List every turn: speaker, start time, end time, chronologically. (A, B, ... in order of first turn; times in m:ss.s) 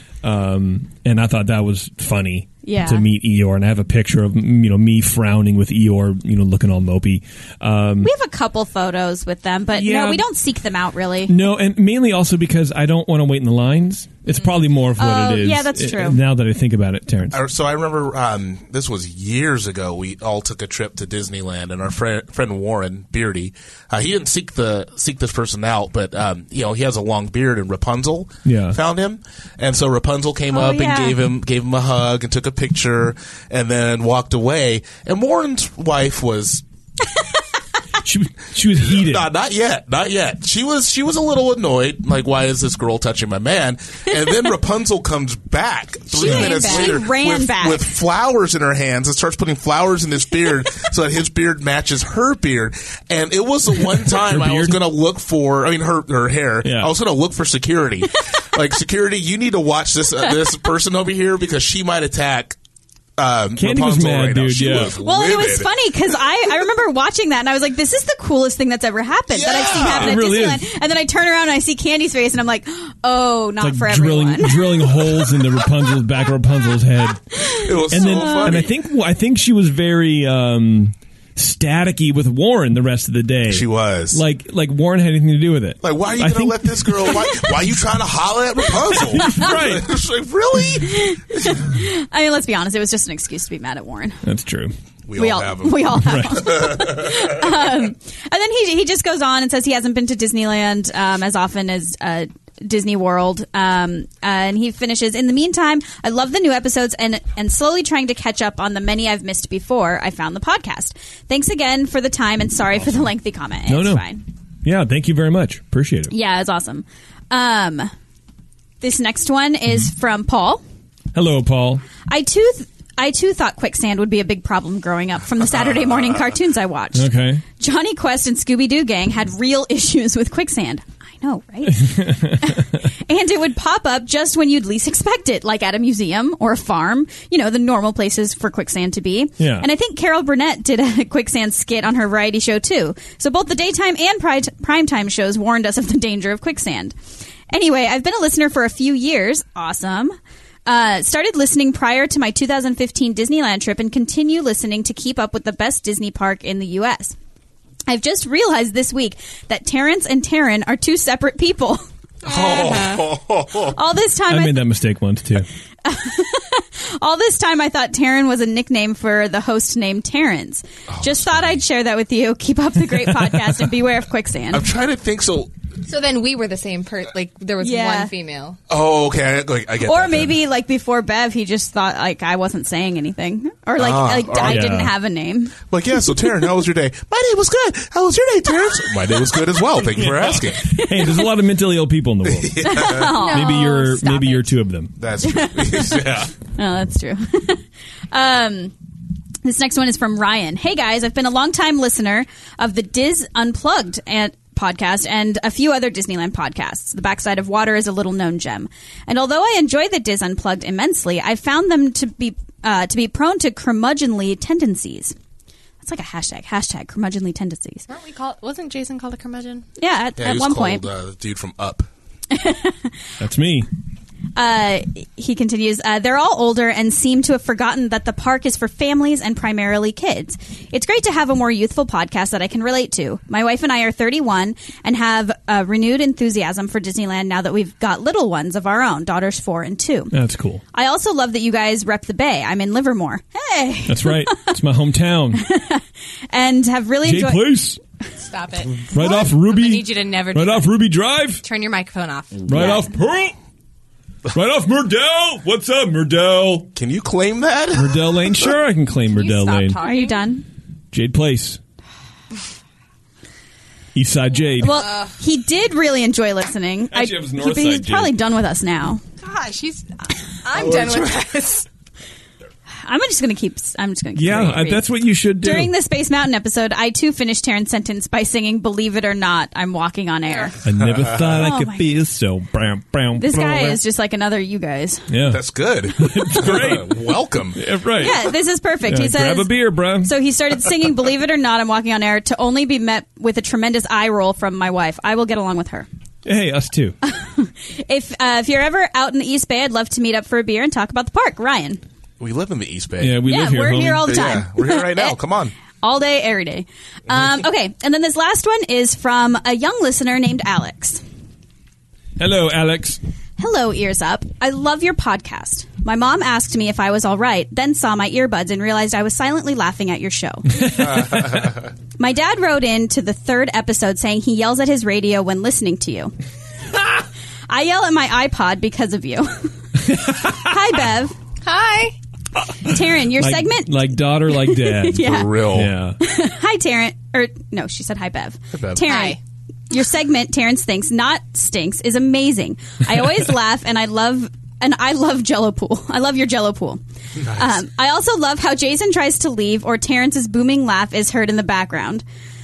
0:00.2-0:08.1 A
0:02.6-0:03.0 B
0:08.0-0:11.3 B
0:09.7-0:10.2 A
0:11.3-0:17.4 A
0:15.0-0:16.2 B
0:17.3-0:36.6 C
0:28.4-0:28.8 A
0:30.5-0:31.2 B
0:38.0-0:39.3 A
0:38.8-1:02.6 C
0:46.1-0:47.9 B
0:46.2-0:46.9 A
0:54.2-0:54.8 A
0:56.6-0:56.9 A
1:03.2-1:05.9 C
1:03.6-1:05.0 A
1:05.0-1:15.3 B
1:09.3-1:10.2 C
1:09.7-1:10.6 A
1:13.6-1:27.4 A
1:17.4-1:18.6 B
1:17.5-1:18.7 C
1:23.5-1:24.2 C
1:25.8-1:31.6 C
1:29.1-1:29.9 A
1:30.9-1:34.2 B
1:34.2-1:34.7 A
1:35.1-1:37.4 C
1:35.2-1:54.2 B
1:36.0-1:36.6 A
1:52.8-1:53.1 A
1:53.7-1:54.0 A
1:54.6-1:56.1 A
1:56.1-1:57.9 B
1:58.8-2:00.6 B
2:01.1-2:01.9 A
2:02.0-2:27.0 B
2:05.4-2:06.4 C
2:07.0-2:07.4 A
2:11.7-2:12.8 A
2:19.4-2:19.7 A
2:27.5-2:37.2 B
2:37.9-2:41.8 B
2:42.3-2:43.0 D
2:42.3-2:43.8 C
2:42.5-2:42.9 B
2:43.6-2:44.6 B
2:44.3-2:45.5 A
2:45.8-2:54.6 B
2:50.9-2:51.6 C
2:52.9-2:53.7 A
2:54.5-2:55.5 C
2:55.9-2:58.6 D
2:57.6-2:58.1 B
2:58.7-3:00.4 C
2:59.8-3:05.6 B
3:03.8-3:04.8 C
3:04.4-3:04.9 A
3:05.7-3:10.8 C
3:09.9-3:14.9 A
3:12.2-3:13.1 C
3:12.6-3:14.5 B
3:13.2-3:13.8 D
3:15.0-3:16.3 C
3:15.2-3:18.8 B
3:19.4-3:35.2 B
3:35.8-3:37.9 B
3:37.9-3:39.7 D
3:39.8-3:40.8 B
3:40.2-3:41.9 C
3:42.3-3:43.0 B
3:43.2-3:43.7 A
3:44.4-4:00.1 B
4:00.1-4:00.6 A
4:00.7-4:04.6 B
4:03.9-4:05.4 A
4:05.4-4:07.5 B
4:07.0-4:07.8 A
4:08.2-4:10.7 D
4:08.9-4:11.4 A
4:11.4-4:12.8 D
4:12.5-4:13.3 A
4:14.3-4:16.7 A
4:16.8-4:18.3 C
4:17.8-4:19.8 A
4:19.1-4:20.3 D
4:19.8-4:20.4 B
4:20.9-4:21.6 A
4:24.0-4:24.8 A
4:24.6-4:29.0 B
4:24.8-4:25.2 D
4:26.9-4:28.1 A
4:29.2-4:31.7 D
4:30.6-4:31.3 C
4:32.8-4:34.8 B
4:34.2-4:35.7 A
4:34.3-4:34.6 C
4:35.4-4:40.6 B
4:40.6-4:43.8 A
4:40.8-4:41.4 C
4:41.4-4:41.8 B
4:43.2-4:45.1 B
4:45.1-4:48.3 A
4:45.3-4:47.6 C
4:48.0-4:55.9 B
4:48.8-4:50.1 A
4:56.2-4:57.0 A
4:57.0-5:01.8 B
5:02.2-5:03.2 C
5:03.0-5:04.4 A
5:03.2-5:05.2 B
5:04.0-5:05.6 C
5:05.8-5:11.0 B
5:12.2-5:13.0 A
5:13.4-5:21.0 B
5:20.6-5:21.3 A
5:20.9-5:21.7 C
5:22.0-5:26.1 B
5:27.5-5:31.2 B
5:29.8-5:30.5 A
5:31.4-5:32.0 D
5:32.4-5:36.0 A
5:32.6-5:35.3 B
5:34.9-5:35.8 C
5:36.0-5:39.2 B
5:38.5-5:38.9 C
5:38.8-5:39.2 D
5:39.7-5:52.0 B
5:47.2-5:47.6 C